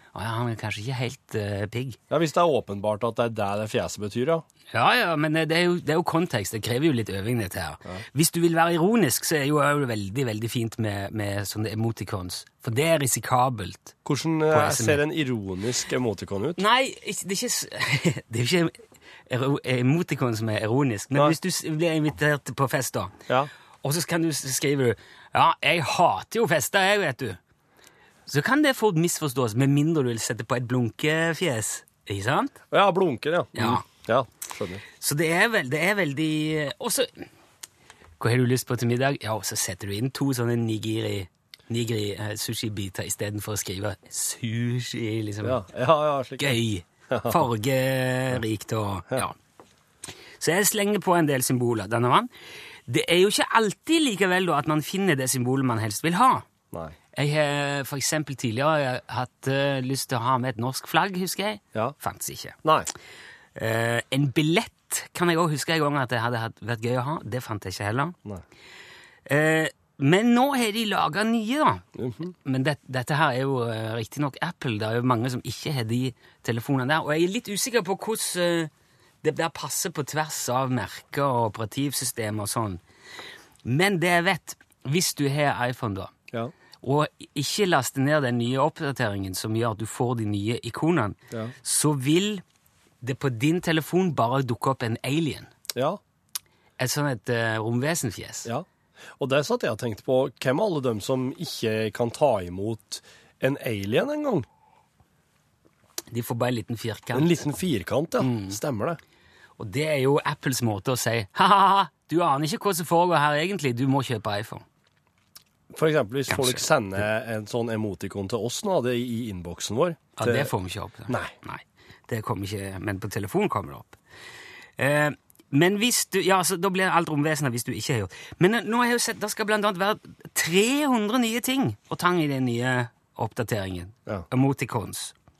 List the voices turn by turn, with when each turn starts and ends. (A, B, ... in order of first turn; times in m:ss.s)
0:00.1-0:02.0 A
0:02.1-0:04.4 B
0:04.7-0:14.0 A
0:14.0-0:16.6 B
0:14.5-0:15.0 A
0:16.6-0:23.1 A
0:23.8-0:27.4 A
0:28.3-0:32.5 A
0:32.7-0:34.8 B
0:33.6-0:33.8 A
0:35.0-0:37.1 A
0:38.2-0:45.6 A
0:45.4-0:47.4 B
0:46.4-0:49.4 A
0:50.4-0:52.3 A
0:52.9-0:56.4 A
0:57.1-1:02.6 A
1:02.6-1:02.9 B
1:03.6-1:08.2 A
1:09.2-1:11.8 A
1:11.9-1:12.3 B
1:12.4-1:18.7 A
1:19.2-1:22.8 A
1:23.6-1:26.1 A
1:26.8-1:32.4 A
1:33.0-1:35.5 A
1:35.7-1:36.0 B
1:36.8-1:38.5 A
1:39.2-1:44.4 B
1:46.1-1:47.4 A
1:47.1-1:49.0 B
1:48.2-1:48.6 A
1:49.6-1:54.6 A
1:55.7-2:00.5 B
1:56.3-1:56.7 A
2:00.2-2:04.0 A
2:04.8-2:15.1 A